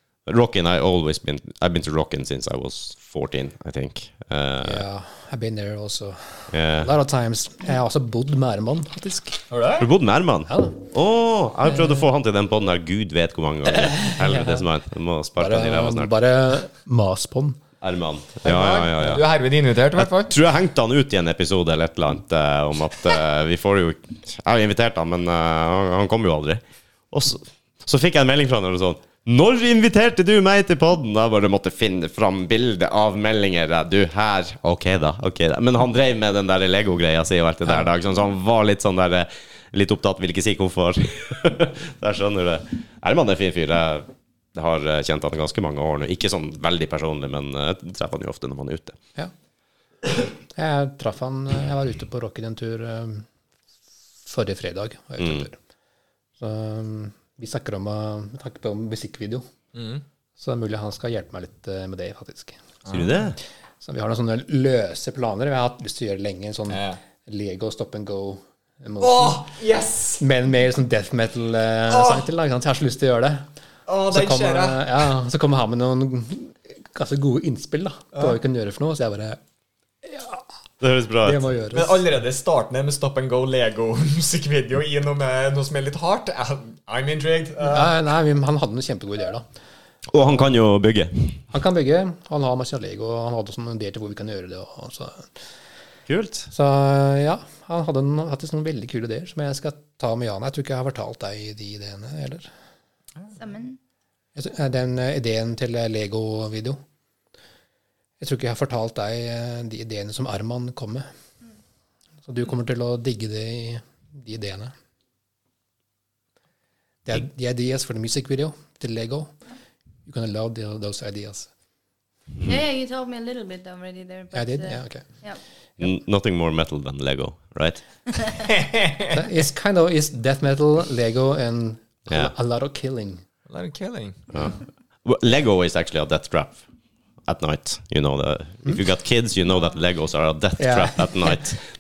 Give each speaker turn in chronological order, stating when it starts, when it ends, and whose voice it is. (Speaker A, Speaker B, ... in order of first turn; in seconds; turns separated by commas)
Speaker A: 0.2-4.8, Speaker B: 4.6-9.4, Speaker A: 6.5-6.9, Speaker C: 9.5-9.9, Speaker A: 9.8-16.1, Speaker B: 10.5-10.8, Speaker B: 13.9-14.6, Speaker B: 15.4-17.6, Speaker A: 17.8-19.3, Speaker C: 18.4-20.3, Speaker A: 20.0-49.0, Speaker B: 50.5-53.2, Speaker B: 54.2-55.6, Speaker A: 55.2-55.5, Speaker B: 56.4-59.4, Speaker C: 59.7-60.0, Speaker B: 60.4-62.6, Speaker C: 62.8-63.1, Speaker A: 62.9-63.4, Speaker B: 63.8-69.5, Speaker C: 66.7-67.0, Speaker C: 69.0-70.2, Speaker B: 70.2-73.5, Speaker C: 71.9-72.3, Speaker C: 73.8-75.1, Speaker B: 74.1-79.4, Speaker B: 80.0-80.4, Speaker A: 80.8-81.4, Speaker B: 81.2-82.0, Speaker C: 81.7-87.9, Speaker B: 87.6-89.4, Speaker A: 90.1-91.4, Speaker B: 91.5-95.3, Speaker A: 96.1-96.5, Speaker B: 96.5-102.5, Speaker D: 103.3-103.8, Speaker B: 104.3-106.8, Speaker B: 108.2-111.0, Speaker B: 112.2-114.7, Speaker B: 117.0-119.3, Speaker B: 120.0-121.5, Speaker D: 122.4-125.4, Speaker B: 124.3-125.0, Speaker A: 125.8-127.8, Speaker C: 128.5-129.2, Speaker B: 129.1-133.2, Speaker C: 133.5-134.5, Speaker A: 134.3-136.6, Speaker A: 137.2-141.6, Speaker B: 140.6-141.4